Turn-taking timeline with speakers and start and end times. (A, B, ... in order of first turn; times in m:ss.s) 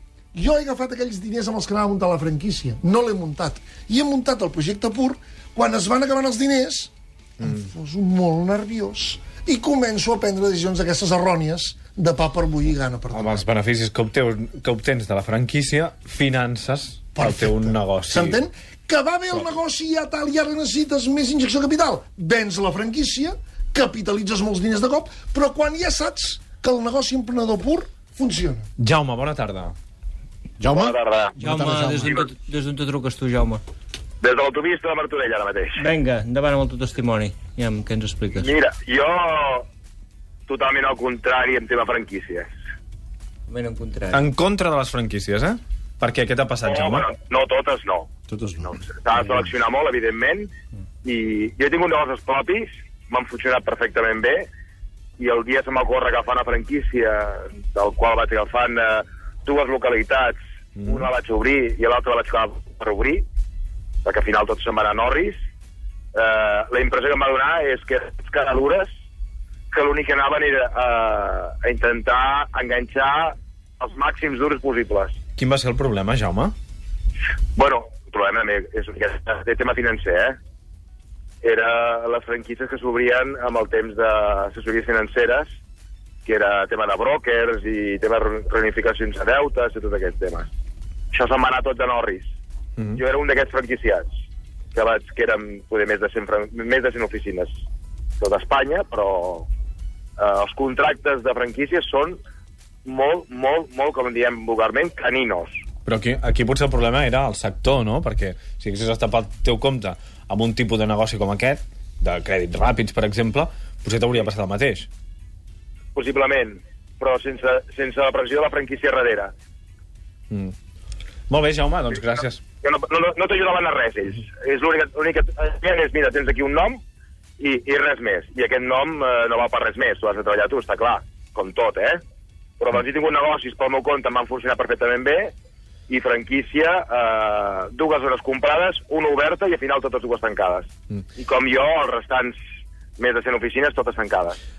0:00.3-0:13.4 A
0:13.1-0:18.4 B
0:17.2-0:28.7 A
0:28.8-0:29.7 B
0:30.6-0:32.2 C
0:30.7-0:31.3 D
0:31.4-0:33.6 E
0:32.0-0:32.3 D
0:34.2-0:35.8 D
0:35.8-0:38.5 E
0:38.4-0:39.6 D
0:40.5-0:42.5 D
0:43.5-0:44.2 E
0:44.1-0:47.1 B
0:46.6-0:48.1 D
0:48.3-0:48.8 C
0:48.7-0:50.5 D
0:51.0-0:54.5 D
0:55.2-1:03.2 D
1:00.8-1:01.1 B
1:04.0-1:05.4 D
1:06.1-1:08.9 D
1:09.7-1:15.1 D
1:15.4-1:16.5 B
1:17.5-1:20.4 D
1:21.4-1:25.5 D
1:26.2-1:30.5 D
1:31.1-1:32.3 D
1:33.0-1:34.1 D
1:34.7-1:37.5 D
1:38.2-1:39.5 D
1:40.2-1:42.2 D
1:42.8-1:45.5 D
1:45.8-1:54.9 B
1:55.9-1:59.3 D
2:01.3-2:02.4 B
2:02.6-2:06.8 D
2:07.4-2:12.0 D
2:12.6-2:15.3 D
2:15.9-2:22.4 D
2:23.0-2:24.4 D